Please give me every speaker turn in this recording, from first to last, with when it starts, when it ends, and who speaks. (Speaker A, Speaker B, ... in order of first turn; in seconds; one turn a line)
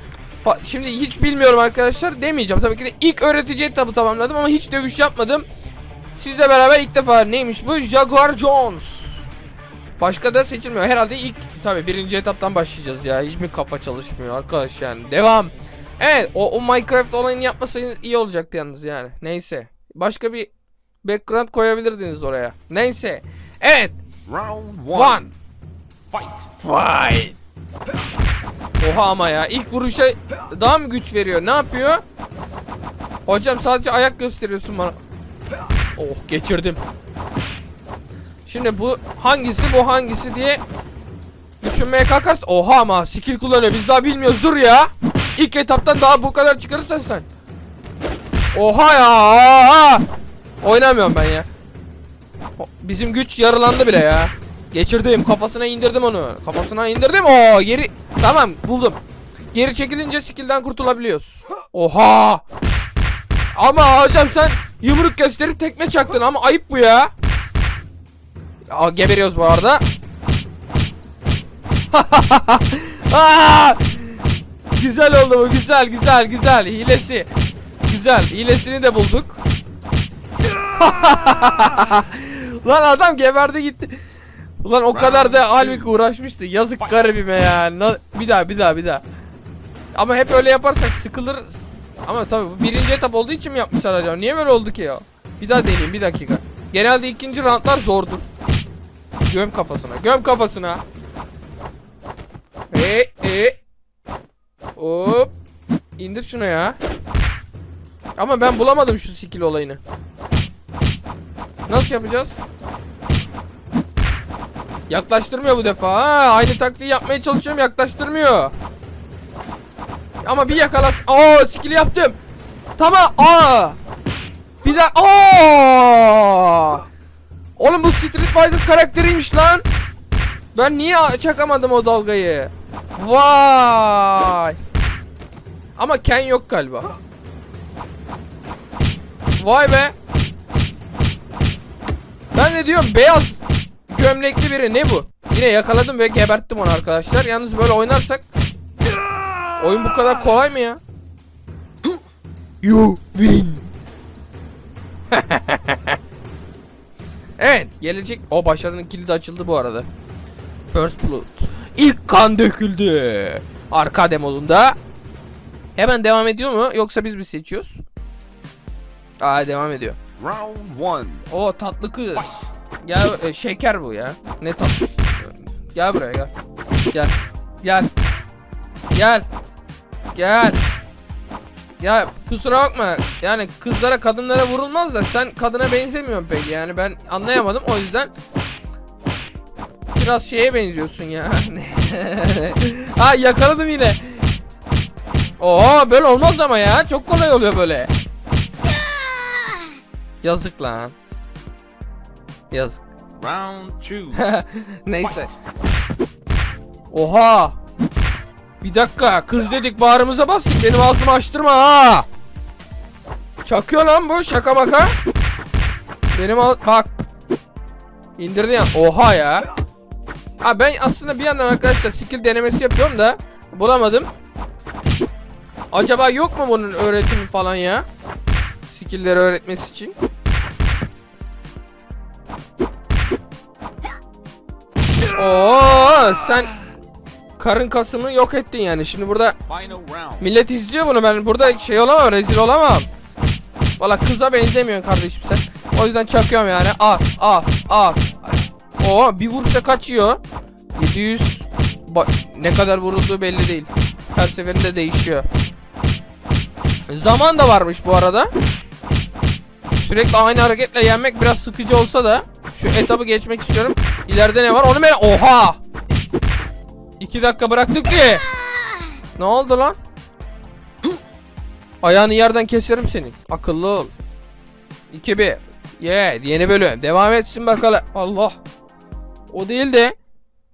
Speaker A: 0.4-5.5
Speaker A: 6.2-9.3
Speaker A: 10.0-20.5
Speaker A: 21.0-24.0
Speaker B: 24.3-25.3
Speaker A: 24.9-25.3
Speaker B: 26.1-26.5
Speaker A: 26.6-27.4
Speaker A: 28.8-32.0
Speaker A: 33.3-35.0
Speaker A: 36.0-36.8
Speaker A: 38.5-40.6
Speaker A: 41.6-47.3
Speaker A: 48.5-50.0
Speaker A: 50.6-51.5
Speaker A: 52.6-59.0
Speaker A: 59.5-62.4
Speaker A: 63.5-67.1
Speaker A: 68.7-69.8
Speaker A: 71.9-74.2
Speaker A: 74.7-77.3
Speaker A: 77.9-79.4
Speaker A: 80.6-84.0
Speaker A: 84.6-89.0
Speaker B: 84.9-85.9
Speaker B: 86.8-87.2
Speaker A: 89.9-98.3
Speaker A: 99.3-100.8
Speaker A: 102.7-103.6
Speaker A: 104.8-105.3
Speaker A: 106.0-106.8
Speaker A: 108.2-109.8
Speaker A: 111.7-112.4
Speaker A: 114.9-118.5
Speaker A: 120.2-122.2
Speaker A: 122.8-123.8
Speaker A: 124.6-126.8
Speaker A: 127.6-129.6
Speaker A: 130.5-134.6
Speaker A: 135.8-136.9
Speaker A: 139.4-139.9
Speaker A: 142.3-148.2
Speaker A: 149.6-150.8
Speaker A: 152.6-153.7
Speaker A: 155.1-156.0
Speaker A: 157.4-159.9
Speaker A: 160.7-164.8
Speaker A: 165.8-167.8
Speaker A: 169.2-170.0
Speaker B: 170.2-171.3
Speaker A: 171.3-176.3
Speaker B: 172.2-172.5
Speaker A: 176.9-177.9
Speaker A: 178.9-179.3
Speaker A: 180.1-180.6
Speaker A: 181.8-188.1
Speaker A: 189.9-194.3
Speaker A: 195.4-197.9
Speaker A: 200.2-200.9
Speaker A: 202.5-202.8
Speaker B: 203.2-204.2
Speaker A: 204.1-205.3
Speaker B: 205.0-205.4
Speaker A: 206.9-207.6
Speaker A: 208.6-212.1
Speaker A: 213.4-214.9
Speaker A: 216.1-216.9
Speaker A: 218.2-219.5
Speaker A: 220.4-224.1
Speaker A: 225.7-227.8
Speaker A: 228.7-229.9
Speaker A: 235.2-236.5
Speaker A: 237.4-239.4
Speaker B: 239.5-240.3
Speaker A: 240.2-242.9
Speaker A: 243.8-250.2
Speaker A: 250.8-255.3
Speaker A: 256.9-258.3
Speaker A: 259.7-265.6
Speaker A: 267.0-268.3
Speaker A: 269.2-269.8
Speaker A: 271.8-273.9
Speaker A: 274.9-278.4
Speaker A: 279.3-280.0